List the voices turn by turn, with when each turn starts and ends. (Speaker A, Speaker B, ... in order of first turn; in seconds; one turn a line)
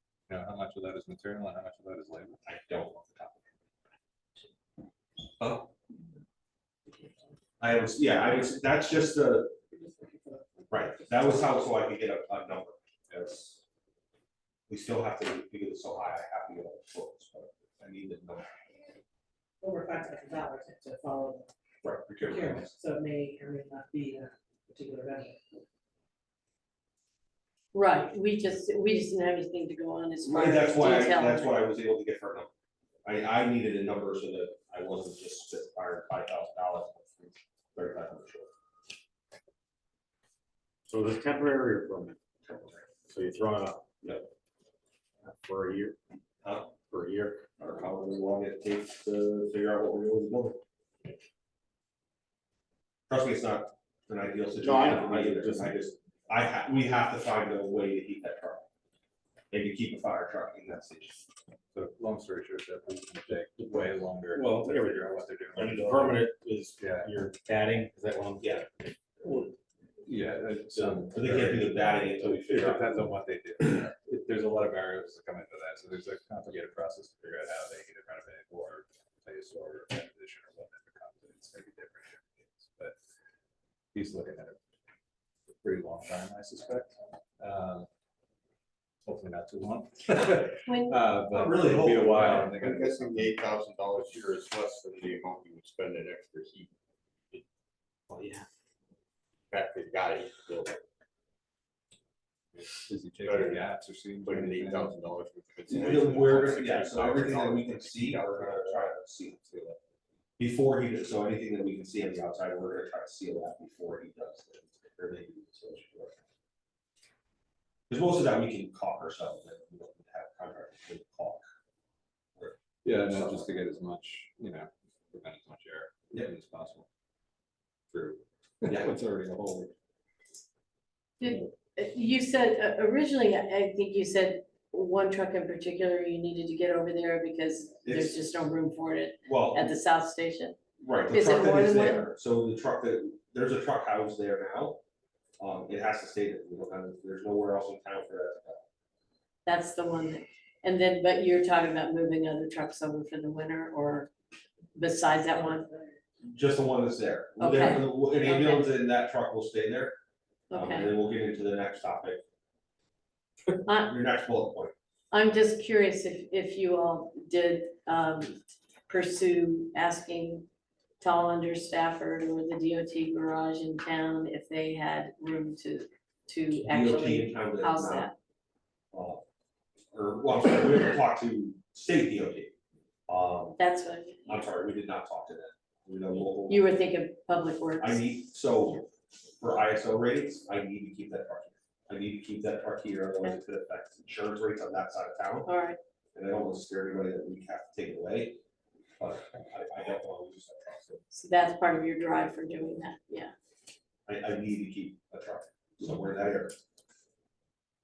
Speaker A: 0.3-2.4
Speaker B: 2.5-3.4
Speaker B: 5.4-5.7
Speaker C: 6.9-7.2
Speaker B: 7.6-9.6
Speaker C: 9.7-11.3
Speaker B: 10.7-13.6
Speaker B: 14.7-18.7
Speaker C: 19.6-21.5
Speaker B: 21.8-22.7
Speaker C: 22.2-25.6
Speaker D: 27.7-31.6
Speaker B: 30.2-32.5
Speaker B: 33.0-38.5
Speaker E: 40.9-43.8
Speaker B: 44.0-44.3
Speaker E: 45.3-46.0
Speaker B: 46.4-46.7
Speaker E: 46.9-47.4
Speaker B: 47.6-50.6
Speaker B: 53.1-58.7
Speaker E: 54.6-55.9
Speaker B: 59.5-61.2
Speaker A: 61.7-66.3
Speaker E: 64.3-68.7
Speaker A: 66.8-67.1
Speaker A: 70.0-83.0
Speaker B: 70.7-72.9
Speaker A: 83.9-84.6
Speaker A: 85.5-87.9
Speaker A: 89.0-93.4
Speaker D: 90.7-91.0
Speaker B: 91.3-92.5
Speaker F: 92.5-96.7
Speaker F: 99.5-100.7
Speaker A: 102.5-105.0
Speaker F: 103.3-103.6
Speaker F: 104.3-108.9
Speaker B: 105.7-109.4
Speaker B: 110.4-116.2
Speaker B: 117.9-121.4
Speaker A: 122.8-126.9
Speaker B: 123.1-123.5
Speaker A: 127.9-129.7
Speaker D: 131.2-140.6
Speaker B: 137.8-138.2
Speaker B: 139.3-139.7
Speaker B: 140.8-144.8
Speaker D: 141.1-142.0
Speaker B: 145.4-148.6
Speaker D: 149.5-154.1
Speaker D: 154.8-155.7
Speaker C: 155.3-155.9
Speaker B: 156.2-160.0
Speaker D: 157.4-158.7
Speaker D: 160.5-160.9
Speaker B: 160.5-162.2
Speaker D: 163.7-163.9
Speaker B: 163.8-164.7
Speaker D: 165.1-170.5
Speaker D: 171.0-178.1
Speaker B: 176.7-178.1
Speaker B: 178.9-179.2
Speaker B: 179.9-182.5
Speaker B: 183.1-183.6
Speaker D: 183.6-184.3
Speaker B: 184.3-186.7
Speaker D: 186.5-188.1
Speaker B: 187.8-188.9
Speaker B: 189.4-195.5
Speaker D: 195.4-195.8
Speaker B: 196.2-198.4
Speaker B: 199.0-201.0
Speaker D: 201.1-203.3
Speaker B: 204.1-206.6